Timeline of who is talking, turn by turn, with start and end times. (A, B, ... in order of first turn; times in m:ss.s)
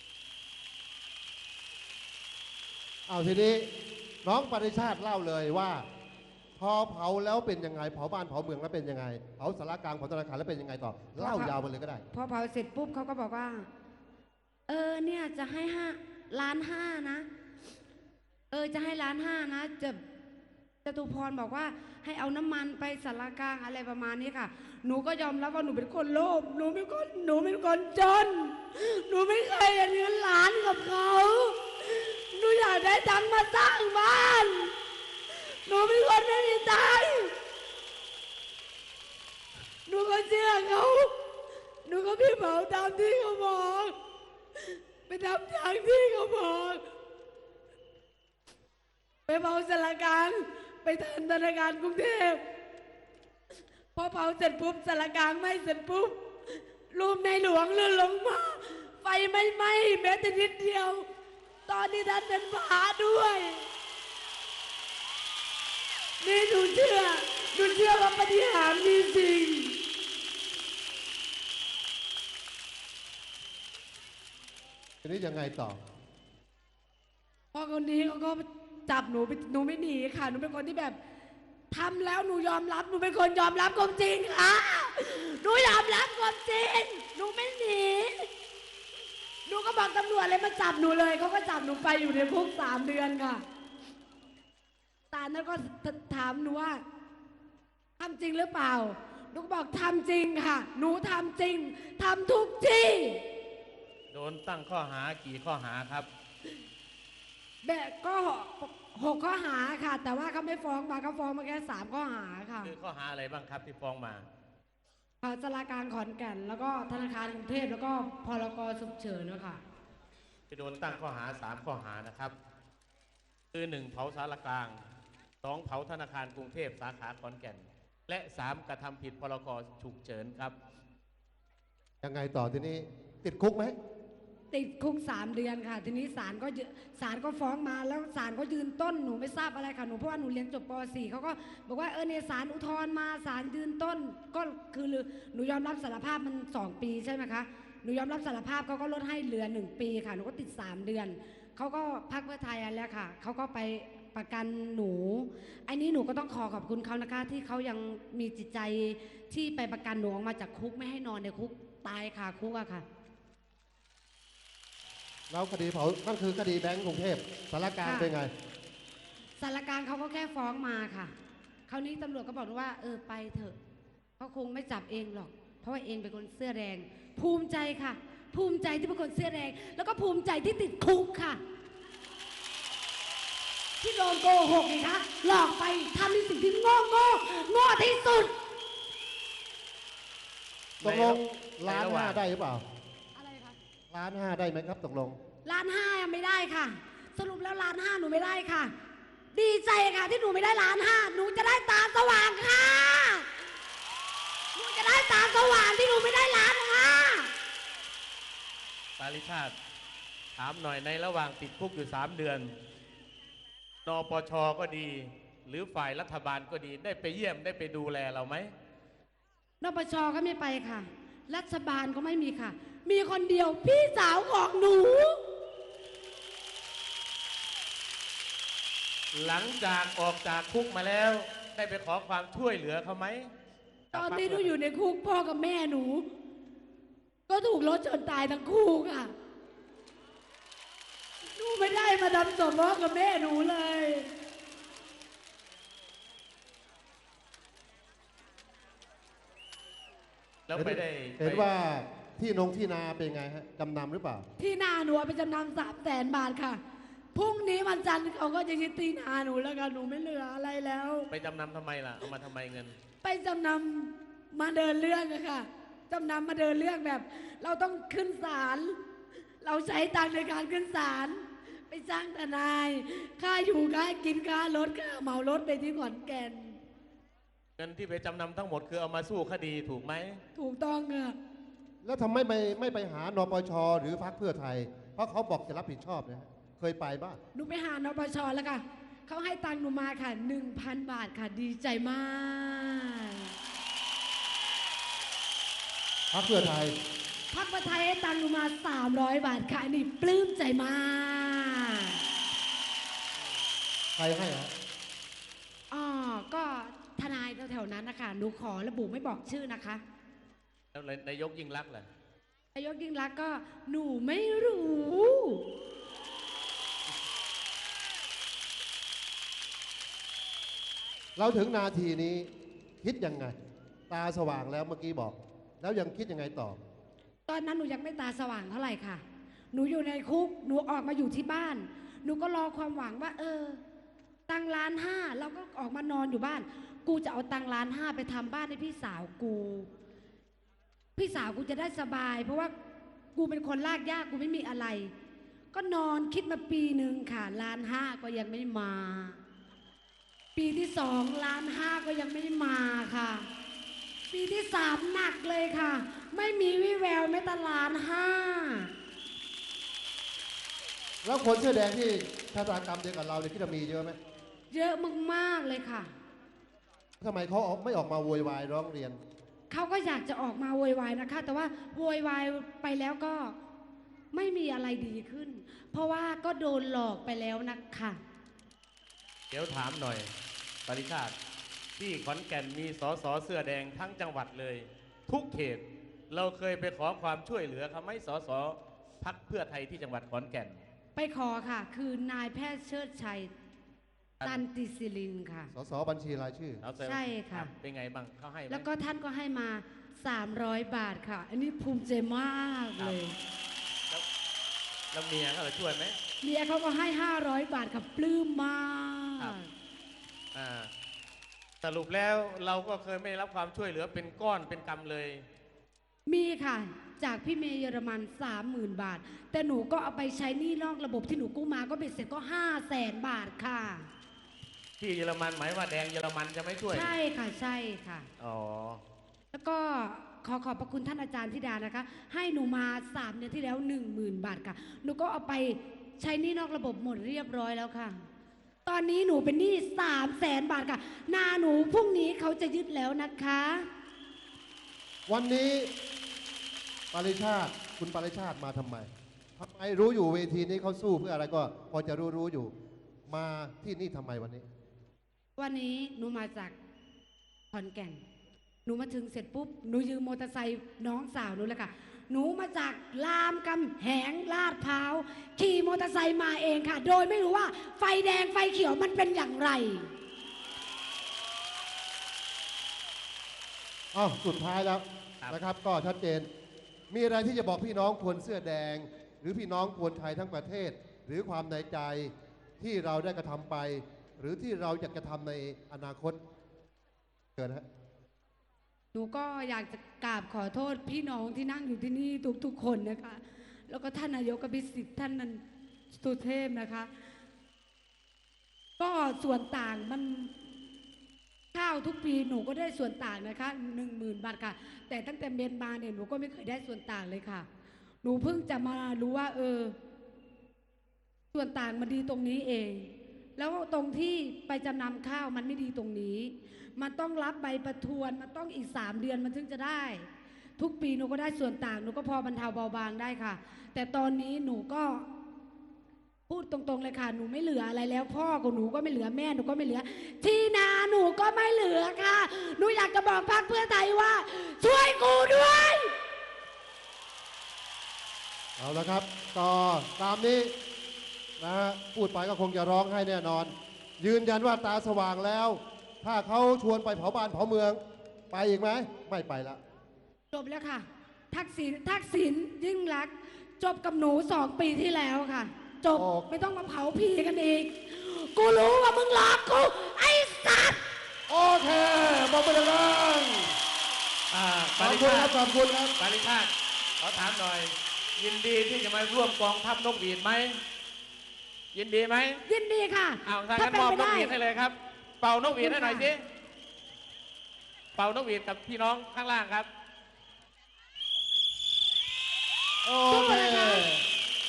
0:03.1-0:03.7 A
0:04.2-0:05.9 A
0:06.6-0:12.0 A
0:11.2-0:11.6 B
0:12.1-0:13.7 B
0:14.7-0:17.3 B
0:18.5-0:20.0 B
0:20.8-0:34.7 B
0:35.6-0:37.3 B
0:39.9-0:41.1 B
0:41.8-0:43.9 B
0:45.1-0:46.8 B
0:49.3-0:52.4 B
0:53.9-0:56.2 B
0:56.9-1:01.0 B
1:01.7-1:03.7 B
1:06.2-1:09.8 B
1:15.0-1:15.8 A
1:17.5-1:21.0 B
1:21.7-1:28.3 B
1:29.5-1:33.4 B
1:35.1-1:36.8 B
1:38.0-1:43.2 B
1:44.1-1:46.1 C
1:47.6-1:52.7 B
1:52.6-1:54.3 C
1:55.2-1:59.6 B
2:00.5-2:02.3 C
2:03.5-2:04.8 C
2:05.4-2:10.6 C
2:12.0-2:13.8 A
2:14.5-2:42.8 B
2:45.3-2:48.3 A
2:47.8-2:48.1 B
2:49.4-2:51.1 B
2:51.7-2:53.6 B
2:54.2-3:01.4 B
3:03.8-3:08.3 B
3:10.8-3:12.2 C
3:10.8-3:12.6 A
3:13.2-3:13.6 B
3:13.9-3:15.2 A
3:15.4-3:18.7 B
3:19.3-3:23.3 B
3:24.6-3:27.3 B
3:29.0-3:29.6 C
3:30.4-3:32.6 C
3:33.8-3:38.5 C
3:39.6-3:45.2 B
3:49.1-3:53.3 C
3:53.9-3:54.5 C
3:53.9-3:56.1 B
3:57.3-3:59.1 B
4:01.4-4:04.1 B
4:10.5-4:11.5 C
4:10.6-4:14.3 A
4:14.4-4:16.6 B
4:17.1-4:21.1 B
4:21.1-4:22.8 C
4:23.0-4:28.8 B
4:29.4-4:36.6 B
4:37.6-4:40.2 C
4:40.4-4:41.2 B
4:41.8-4:47.2 A
4:47.3-4:53.3 B
4:56.1-4:56.8 A
4:57.3-5:02.0 B
5:04.0-5:04.5 A
5:05.7-5:09.8 B
5:10.7-5:11.9 C
5:12.6-5:15.5 B
5:21.2-5:22.3 A
5:22.8-5:23.4 A
5:23.9-5:26.6 A
5:27.3-5:33.6 B
5:34.3-5:39.7 B
5:41.0-5:42.5 B
5:43.2-5:44.9 B
5:45.5-5:49.2 B
5:50.4-5:53.3 B
5:54.1-5:58.7 B
6:01.0-6:04.0 A
6:04.5-6:05.9 B
6:07.0-6:09.0 A
6:09.5-6:13.4 B
6:14.1-6:18.0 B
6:19.3-6:20.1 C
6:20.7-6:21.1 C
6:21.8-6:30.6 C
6:31.0-6:33.3 B
6:34.2-6:35.5 B
6:35.5-6:36.6 A
6:36.6-6:38.7 C
6:36.8-6:37.5 B
6:38.5-6:43.2 B
6:44.9-6:46.0 C
6:46.2-6:49.5 B
6:50.3-6:50.7 C
6:51.6-6:55.2 C
6:56.1-7:03.9 B
7:04.8-7:06.9 C
7:06.7-7:08.1 B
7:08.2-7:08.8 C
7:09.3-7:18.0 B
7:18.7-7:23.6 B
7:25.1-7:25.7 A
7:26.9-7:32.5 A
7:33.1-7:34.4 A
7:35.4-7:36.6 B
7:37.5-7:38.0 B
7:38.6-7:49.9 B
7:53.9-7:56.3 A
7:56.9-8:06.2 A
8:07.4-8:07.6 A
8:08.9-8:16.9 B
8:18.8-8:20.4 B
8:21.5-8:27.5 B
8:28.0-8:29.8 B
8:31.3-8:45.1 B
8:46.3-8:55.9 B
8:58.6-9:00.5 A
9:01.4-9:07.8 A
9:08.3-9:09.6 A
9:10.3-9:20.8 B
9:15.9-9:16.3 A
9:21.3-9:23.6 A
9:24.3-9:25.3 C
9:24.8-9:26.0 A
9:26.0-9:30.6 C
9:31.7-9:32.4 C
9:32.5-9:34.4 B
9:33.2-9:36.2 C
9:35.6-9:36.1 B
9:38.0-9:39.7 C
9:42.9-9:44.0 A
9:43.1-9:43.9 B